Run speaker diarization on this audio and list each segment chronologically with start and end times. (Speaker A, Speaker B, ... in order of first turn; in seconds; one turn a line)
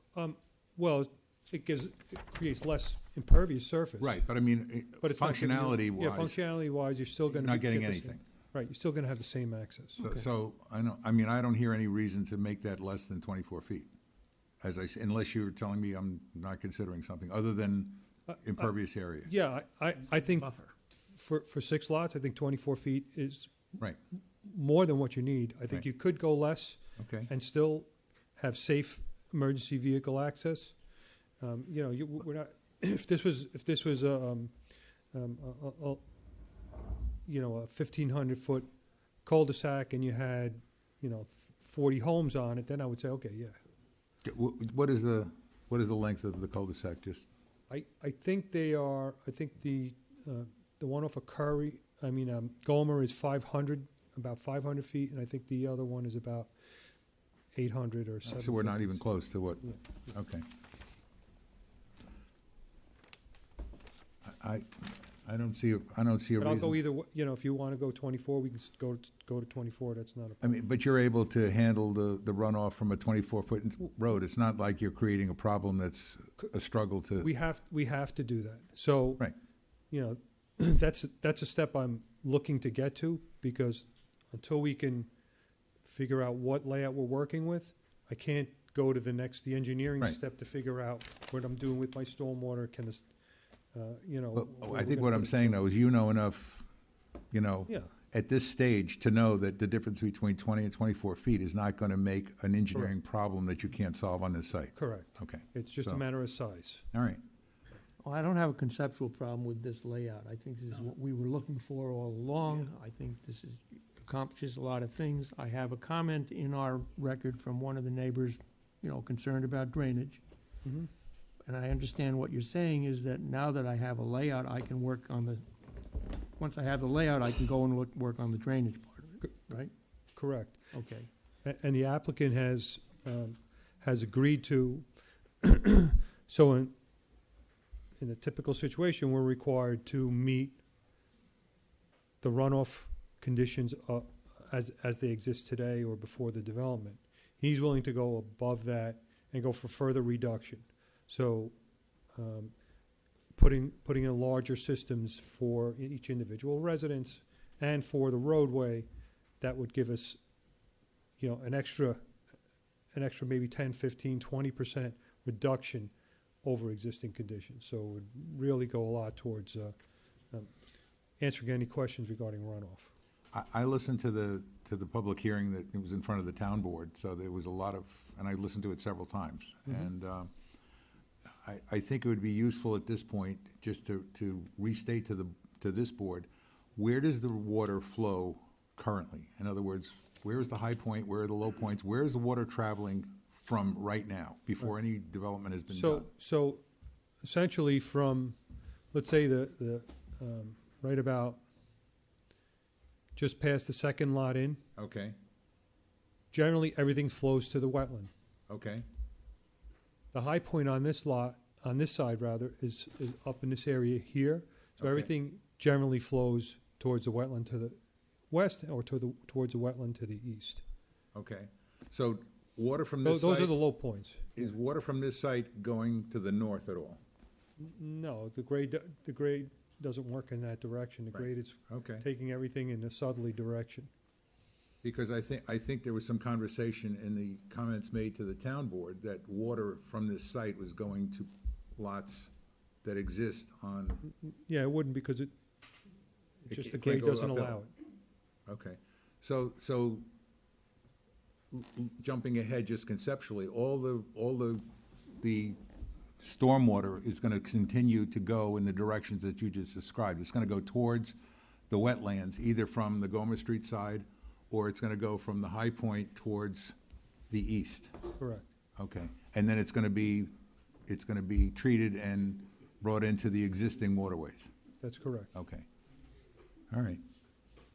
Speaker A: 0.1-4.2
Speaker B: 4.0-6.4
Speaker A: 5.0-10.0
Speaker B: 7.4-8.2
Speaker B: 10.0-13.9
Speaker B: 14.6-19.3
Speaker A: 19.2-23.5
Speaker A: 24.4-30.7
Speaker B: 27.0-27.3
Speaker A: 31.4-34.5
Speaker A: 35.1-36.0
Speaker A: 37.3-38.7
Speaker A: 39.2-43.6
Speaker B: 44.2-47.3
Speaker A: 47.7-56.5
Speaker A: 57.5-59.0
Speaker B: 58.2-60.5
Speaker B: 64.2-66.8
Speaker A: 66.4-70.5
Speaker B: 70.4-77.3
Speaker A: 77.2-79.3
Speaker A: 79.9-85.1
Speaker A: 85.8-93.1
Speaker A: 93.7-95.6
Speaker B: 94.3-96.7
Speaker B: 97.3-106.0
Speaker A: 104.8-106.8
Speaker B: 106.9-107.2
Speaker C: 108.0-120.2
Speaker A: 120.7-120.9
Speaker C: 121.5-125.5
Speaker C: 126.4-129.7
Speaker A: 130.2-130.6
Speaker C: 130.7-131.1
Speaker A: 131.4-134.8
Speaker A: 135.4-136.8
Speaker A: 138.0-140.6
Speaker A: 142.2-151.6
Speaker A: 152.2-152.5
Speaker A: 153.3-158.9
Speaker A: 159.4-160.2
Speaker A: 161.2-162.0
Speaker A: 162.9-165.9
Speaker A: 166.4-169.8
Speaker A: 171.2-172.9
Speaker B: 173.3-180.3
Speaker B: 181.4-196.1
Speaker A: 195.7-196.6
Speaker A: 197.2-198.4
Speaker A: 198.9-201.4
Speaker A: 203.2-204.6
Speaker B: 204.8-205.2
Speaker A: 206.3-208.1
Speaker B: 208.5-208.8
Speaker A: 210.1-217.8
Speaker B: 214.8-215.1
Speaker A: 218.3-220.6
Speaker B: 221.1-223.6
Speaker A: 223.0-224.4
Speaker B: 224.4-227.0
Speaker A: 227.6-233.9
Speaker B: 231.1-232.0
Speaker B: 234.8-242.3
Speaker B: 242.8-244.0
Speaker A: 244.2-245.3
Speaker A: 246.4-247.7
Speaker B: 246.5-247.6
Speaker B: 248.5-250.1
Speaker B: 251.5-254.6
Speaker B: 255.2-255.6
Speaker B: 256.2-261.2
Speaker B: 261.7-266.8
Speaker B: 267.3-267.9
Speaker A: 268.2-268.4
Speaker B: 268.8-270.3
Speaker B: 270.9-274.5
Speaker A: 274.8-275.3
Speaker B: 275.3-275.7
Speaker B: 276.7-277.0